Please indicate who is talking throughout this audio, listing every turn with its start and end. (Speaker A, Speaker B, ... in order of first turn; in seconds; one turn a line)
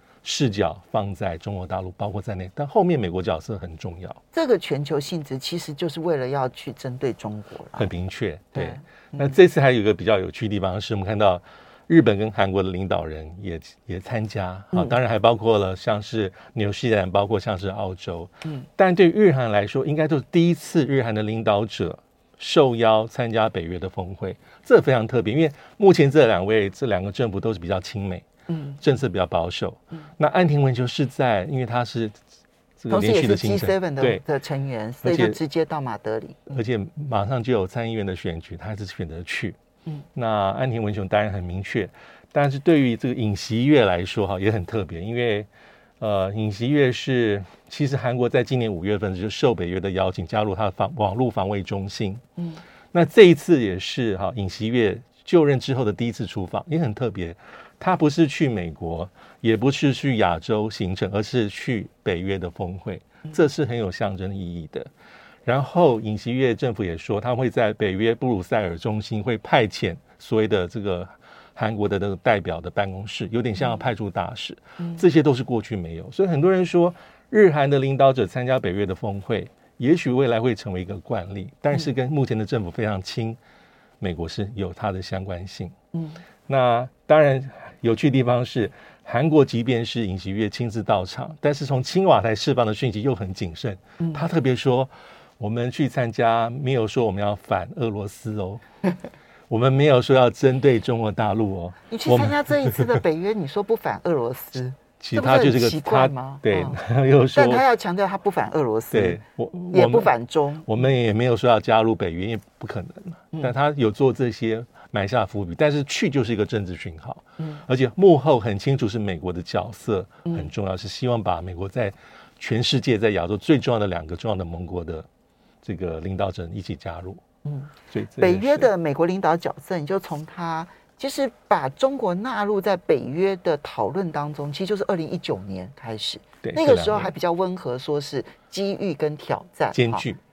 Speaker A: 0.2-4.2
Speaker B: 4.3-7.9
Speaker A: 7.8-28.2
Speaker B: 8.6-9.3
Speaker B: 28.5-28.8
Speaker A: 28.8-32.2
Speaker A: 32.8-34.2
Speaker B: 32.9-36.6
Speaker A: 35.0-35.4
Speaker A: 36.5-39.6
Speaker A: 40.1-45.5
Speaker A: 46.0-52.2
Speaker A: 52.9-64.9
Speaker A: 65.5-83.4
Speaker A: 84.0-85.8
Speaker B: 85.9-86.2
Speaker A: 86.5-98.6
Speaker A: 99.5-102.9
Speaker B: 101.9-106.8
Speaker A: 105.0-107.6
Speaker B: 107.3-109.2
Speaker A: 108.9-125.1
Speaker B: 109.7-110.7
Speaker A: 125.6-127.2
Speaker B: 127.5-140.1
Speaker A: 127.9-128.7
Speaker A: 136.4-137.1
Speaker A: 139.7-140.2